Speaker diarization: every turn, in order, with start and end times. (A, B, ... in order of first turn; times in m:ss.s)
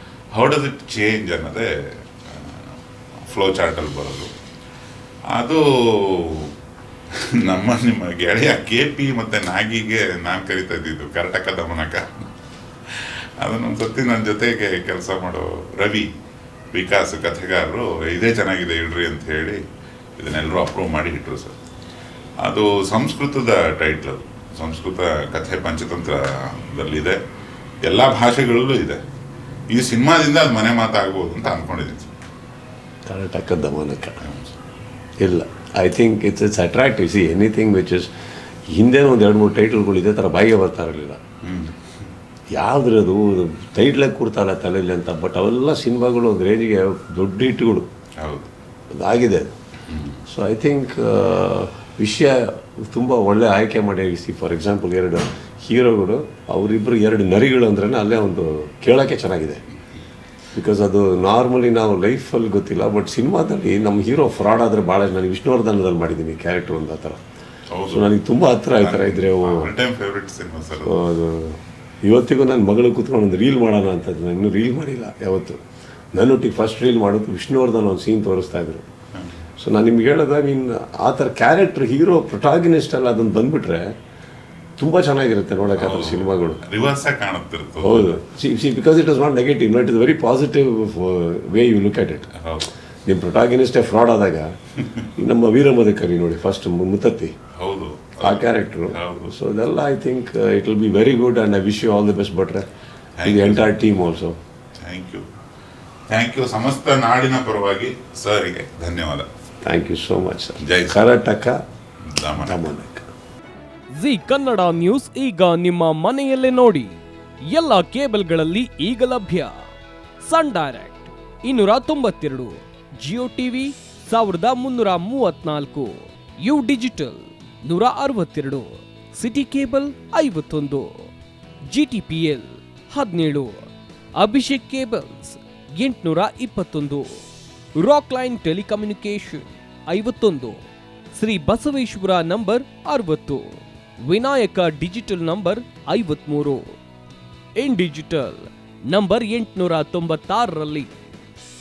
0:00.3-0:04.3 A
0:05.3-0:06.5 A
0:07.1-0:12.3 A
0:12.9-0:16.1 A
0:16.7-0:19.6 A
0:20.2-0:21.6 A
0:22.4-0:27.2 A
0:27.8-0:29.0 A
0:29.7-0:32.1 A
0:33.1-0:34.2 B
0:34.2-0:34.5 A
0:35.2-0:38.1 B
0:38.7-0:41.2 B
0:41.4-0:41.8 A
0:42.5-0:47.9 B
0:48.2-0:48.5 A
0:48.9-0:49.5 B
0:49.9-0:50.2 A
0:50.3-0:59.6 B
1:00.5-1:07.2 B
1:07.7-1:08.1 A
1:07.9-1:09.7 B
1:08.8-1:11.0 A
1:10.8-1:15.6 B
1:16.1-1:18.8 B
1:19.6-1:23.9 B
1:24.8-1:26.6 B
1:25.8-1:28.2 A
1:27.8-1:32.3 B
1:32.3-1:32.7 A
1:33.1-1:34.5 B
1:35.2-1:37.4 B
1:37.6-1:39.3 A
1:38.2-1:42.6 B
1:43.2-1:43.8 A
1:43.2-1:44.4 B
1:44.8-1:45.2 A
1:46.1-1:49.3 A
1:49.6-1:51.6 B
1:50.6-1:51.0 A
1:52.0-1:52.6 A
1:52.4-1:53.1 B
1:53.9-1:57.0 C
1:57.5-1:59.6 C
2:00.2-2:11.0 C
2:11.7-2:13.6 C
2:14.2-2:17.2 C
2:17.8-2:20.6 C
2:21.1-2:26.7 C
2:27.6-2:30.9 C